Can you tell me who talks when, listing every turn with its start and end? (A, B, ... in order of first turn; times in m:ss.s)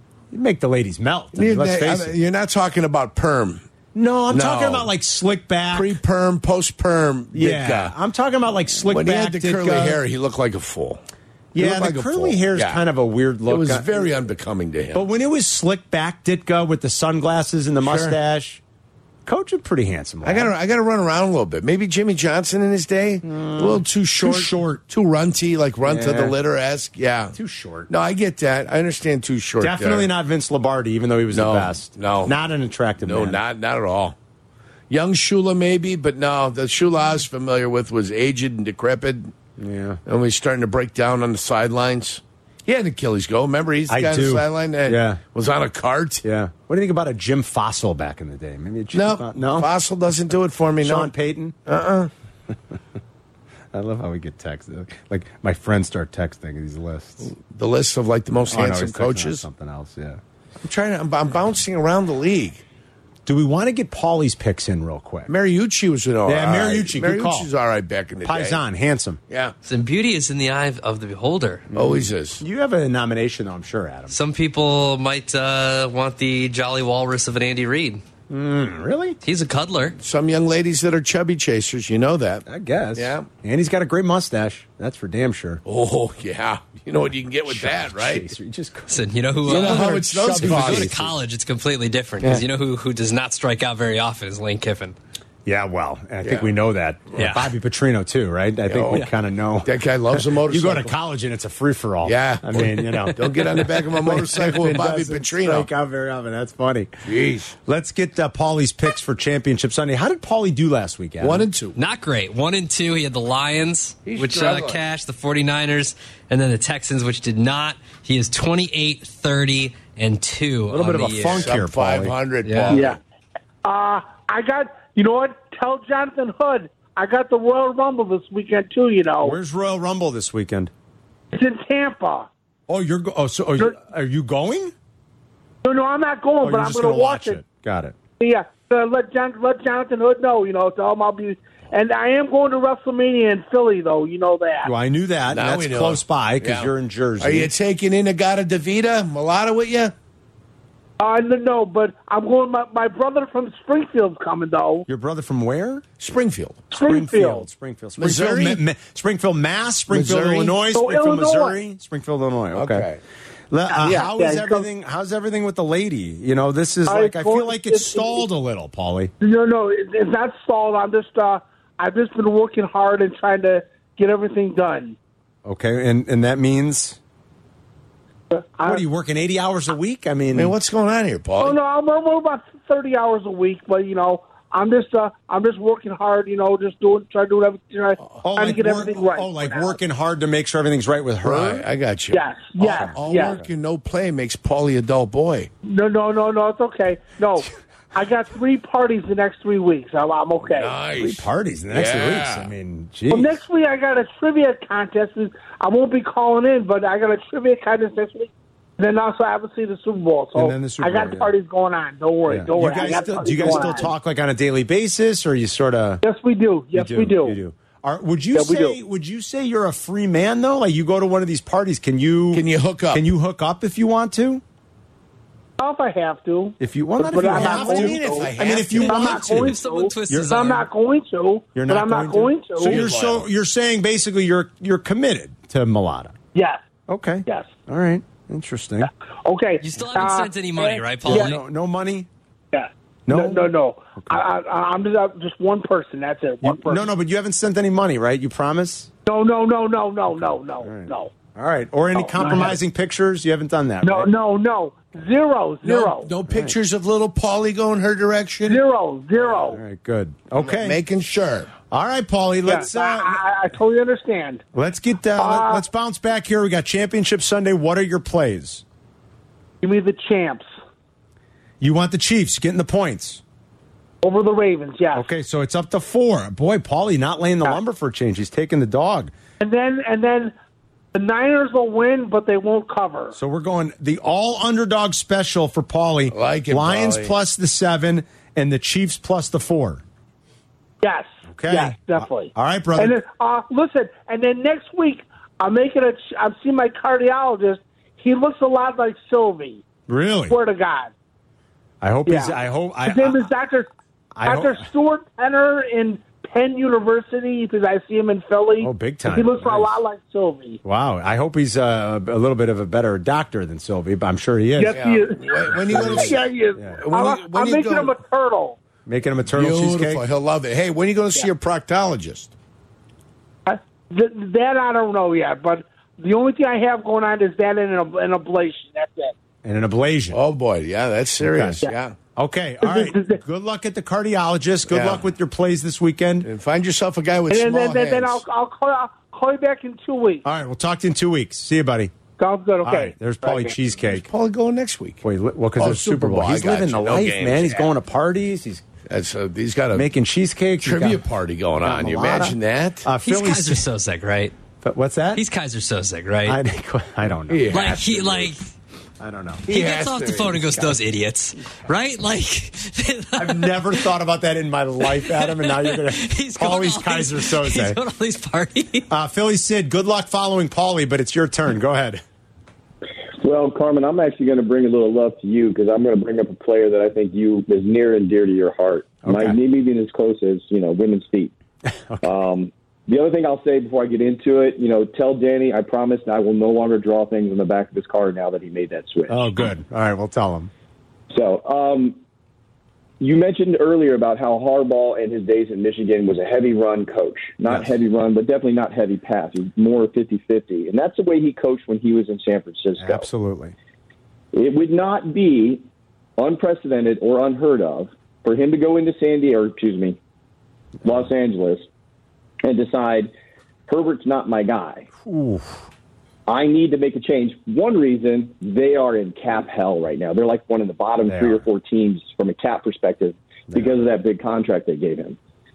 0:00.3-0:02.2 A
0:01.3-0:03.6 B
0:03.9-0:06.0 A
0:04.3-0:04.9 B
0:05.7-0:07.9 B
0:07.3-0:10.0 A
0:08.9-0:11.0 B
0:11.5-0:14.0 A
0:11.6-0:12.8 B
0:13.5-0:15.1 B
0:14.9-0:18.6 A
0:17.8-0:18.2 B
0:19.3-0:20.5 A
0:20.2-0:27.3 B
0:23.2-0:24.8 A
0:25.9-0:26.4 A
0:27.3-0:27.9 A
0:27.9-0:30.1 B
0:29.6-0:33.4 A
0:31.3-0:32.4 B
0:33.0-0:34.2 B
0:34.9-0:39.3 B
0:39.6-0:40.0 A
0:40.1-0:46.2 B
0:43.9-0:45.2 A
0:46.2-0:49.7 A
0:48.9-0:51.1 B
0:50.8-0:51.6 A
0:51.7-0:52.1 B
0:53.7-0:57.3 A
0:57.2-0:59.4 B
0:58.5-1:00.2 A
1:00.6-1:02.6 B
1:03.3-1:05.3 A
1:05.3-1:08.6 B
1:06.3-1:07.5 A
1:08.2-1:09.2 A
1:09.3-1:09.6 B
1:09.6-1:11.7 C
1:11.7-1:14.2 A
1:11.7-1:12.4 B
1:14.1-1:18.0 C
1:18.3-1:19.2 A
1:19.2-1:20.0 C
1:20.0-1:22.4 B
1:22.5-1:25.6 A
1:23.0-1:23.3 B
1:25.6-1:28.3 B
1:27.5-1:31.2 A
1:28.9-1:35.0 C
1:29.5-1:31.0 B
1:35.5-1:39.7 A
1:36.2-1:36.5 B
1:37.2-1:37.5 C
1:38.7-1:39.1 B
1:39.6-1:41.0 B
1:40.4-1:43.2 A
1:42.0-1:45.7 B
1:44.0-1:47.0 A
1:47.0-1:47.6 B
1:47.7-1:51.5 A
1:51.2-1:51.8 B
1:51.8-2:01.5 C
1:54.0-1:54.8 B
2:00.7-2:02.2 A
2:01.2-2:03.0 B
2:02.4-2:02.8 C
2:02.7-2:03.0 D
2:03.6-2:09.4 D
2:09.2-2:10.7 A
2:11.3-2:12.3 D
2:12.7-2:14.7 A
2:15.6-2:17.4 D
2:16.4-2:18.0 A
2:18.2-2:24.7 D
2:24.6-2:27.5 A
2:25.3-2:29.9 B
2:31.0-2:34.8 D
2:34.9-2:35.8 A
2:36.0-2:36.7 B
2:36.7-2:37.5 D
2:36.7-2:42.9 A
2:38.0-2:38.6 B
2:39.9-2:40.6 B
2:40.7-2:41.6 D
2:42.6-2:43.0 B
2:43.5-2:49.1 A
2:43.7-2:44.7 D
2:46.9-2:48.3 D
2:49.2-2:55.0 D
2:55.4-2:57.0 A
2:58.3-2:58.8 D
2:58.6-3:00.6 A
3:00.3-3:01.6 B
3:01.4-3:09.8 D
3:08.2-3:11.7 A
3:11.2-3:15.5 B
3:12.1-3:13.4 D
3:13.1-3:13.5 A
3:15.6-3:20.7 D
3:20.5-3:22.5 B
3:21.0-3:23.3 A
3:23.1-3:33.9 D
3:30.4-3:31.3 A
3:32.3-3:36.0 A
3:36.0-3:37.4 D
3:36.7-3:44.4 A
3:38.3-3:38.8 D
3:42.3-3:43.1 B
3:45.6-3:52.8 D
3:46.6-3:49.6 A
3:47.3-3:49.4 B
3:49.2-3:50.7 C
3:51.6-3:56.2 A
3:52.6-3:53.2 B
3:56.3-3:56.6 D
3:56.9-3:58.9 A
3:57.3-3:57.5 D
3:59.2-4:01.4 D
3:59.6-4:01.4 C
4:01.1-4:02.1 A
4:02.5-4:06.8 D
4:03.1-4:03.5 A
4:06.4-4:08.9 A
4:09.1-4:11.1 D
4:10.6-4:14.1 A
4:11.9-4:12.6 D
4:13.8-4:16.1 D
4:15.6-4:18.6 B
4:16.3-4:16.6 A
4:18.5-4:19.6 D
4:19.3-4:20.8 A
4:20.4-4:21.5 B
4:21.7-4:23.2 A
4:22.4-4:24.4 D
4:24.5-4:28.6 A
4:25.2-4:25.6 D
4:29.6-4:30.5 D
4:31.6-4:33.2 A
4:34.0-4:35.1 D
4:34.9-4:39.1 A
4:39.4-4:40.3 D
4:40.9-4:43.2 D
4:43.2-4:49.8 A
4:46.1-4:47.2 B
4:50.8-4:59.6 D
4:51.3-4:53.0 A
4:59.9-5:00.4 A
5:00.3-5:00.9 D
5:01.8-5:03.3 A
5:02.1-5:03.7 D
5:04.2-5:04.6 A
5:04.2-5:10.6 D
5:08.6-5:09.8 A
5:10.6-5:14.8 A
5:14.6-5:18.6 D
5:14.8-5:16.2 B
5:15.6-5:16.8 A
5:16.8-5:17.9 B
5:18.9-5:20.0 A
5:19.3-5:22.3 B
5:23.5-5:29.2 D
5:29.4-5:30.2 A
5:30.1-5:32.0 B
5:31.2-5:31.6 A
5:32.2-5:36.3 A
5:32.6-5:33.2 D
5:34.7-5:35.0 B
5:36.2-5:38.2 B
5:37.3-5:40.2 D
5:40.2-5:41.9 A
5:42.2-5:43.6 D
5:42.6-5:44.1 A
5:43.8-5:45.0 B
5:45.0-5:48.6 A
5:45.6-5:47.7 B
5:48.9-5:49.9 B
5:49.8-5:51.0 A
5:50.6-5:52.9 B
5:51.6-5:53.6 A
5:53.0-5:54.4 C
5:54.6-5:55.2 A
5:55.2-5:56.4 C
5:56.2-5:57.7 A
5:57.3-5:58.3 B
5:57.5-5:58.4 C
5:59.0-5:59.5 A
5:59.5-6:00.5 B
5:59.5-6:03.8 C
6:03.2-6:07.8 A
6:04.8-6:08.9 C
6:08.9-6:12.0 A
6:13.2-6:21.3 E
6:19.0-6:19.4 A
6:21.7-6:22.2 A
6:22.0-6:29.4 E
6:29.1-6:30.5 A
6:31.1-6:32.0 E
6:33.0-6:43.1 E
6:42.8-6:43.6 A
6:44.3-6:45.6 E
6:46.2-6:50.0 E
6:50.8-6:51.7 E
6:52.4-6:53.1 E
6:53.7-6:54.9 E
6:55.0-6:55.6 A
6:56.3-7:05.2 E
7:01.1-7:01.4 A
7:03.5-7:03.8 A